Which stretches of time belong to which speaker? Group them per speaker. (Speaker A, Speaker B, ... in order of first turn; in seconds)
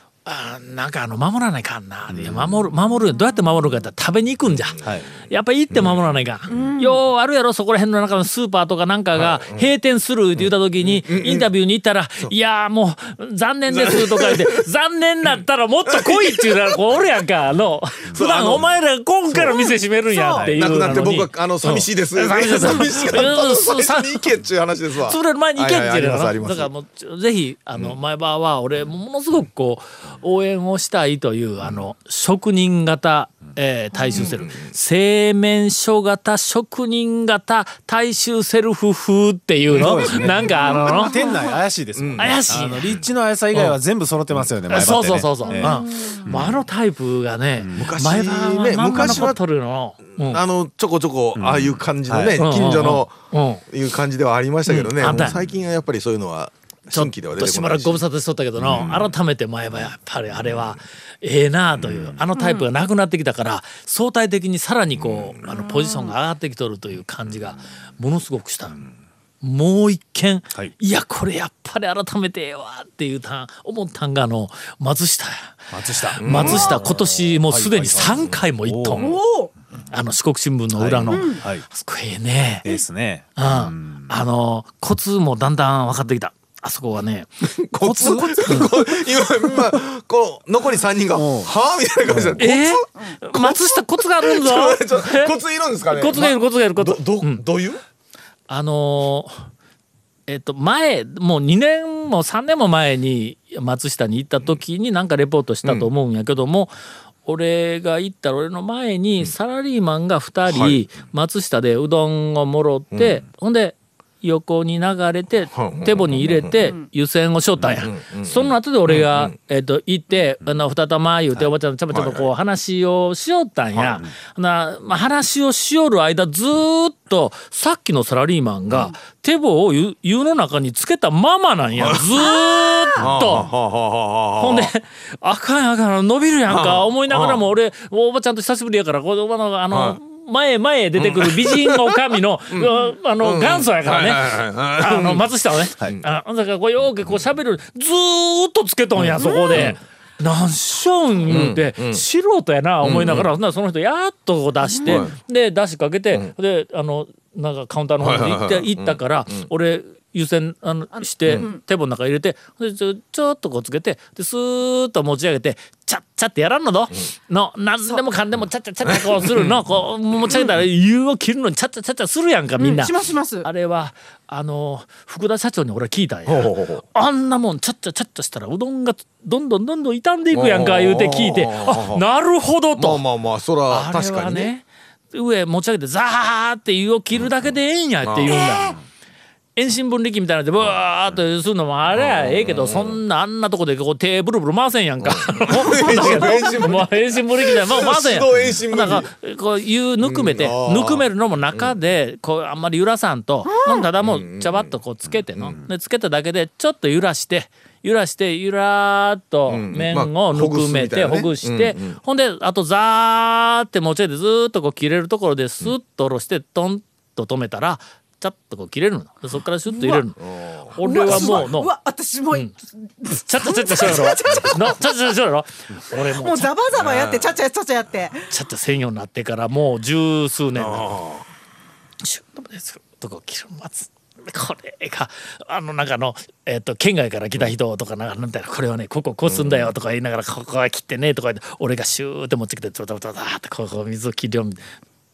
Speaker A: 0.2-24.3, 25.0-41.2, 42.2-43.0, 43.5-43.8, 44.7-50.4, 52.4-53.6, 54.7-55.4, 56.9-68.9, 69.4-79.1, 79.9-82.7, 83.4-87.3, 92.4-95.4, 95.9-97.4, 98.5-99.5, 100.3-106.7, 107.2-133.5, 134.4-183.0, 183.7-188.8, 189.6-221.7, 223.1-226.5, 228.3-230.9, 232.0-244.6
Speaker B: 5.7-6.7, 9.1-9.7, 10.4-11.5, 13.7-14.4, 15.9-16.8, 18.1-18.8, 19.3-19.7, 20.4-26.7, 34.1-34.7, 42.0-43.1, 47.8-49.4, 50.2-58.0, 58.6-59.1, 60.4-60.7, 61.8-62.2, 65.0-65.5, 76.2-76.8, 78.1-78.4, 87.4-97.8, 110.5-110.8, 112.9-113.2, 115.5-116.7, 117.6-119.3, 121.9-122.3, 131.8-132.1, 133.0-134.7, 136.5-137.4, 139.7-140.0, 141.0-141.9, 142.5-146.0, 149.0-149.8, 151.2-152.0, 152.8-153.3, 154.8-155.1, 158.0-159.5, 168.9-169.5, 176.3-176.8, 180.3-182.0, 182.8-184.5, 188.0-188.6, 191.9-193.0, 195.0-199.1, 200.0-201.7, 204.0-204.8, 209.5-212.0, 220.2-221.5, 226.7-227.3, 230.6-231.3, 239.3-239.7
Speaker C: 20.4-21.0, 39.7-46.6, 47.6-48.0, 51.4-52.9, 55.0-55.4, 58.7-59.0, 75.7-79.0, 80.7-81.6, 82.6-84.1, 87.8-88.8, 91.1-91.5, 92.1-92.4
Speaker D: 45.8-46.1, 79.0-79.5, 81.1-81.4, 172.6-173.5, 219.7-220.0, 220.8-222.5, 223.0-224.8, 226.1-228.3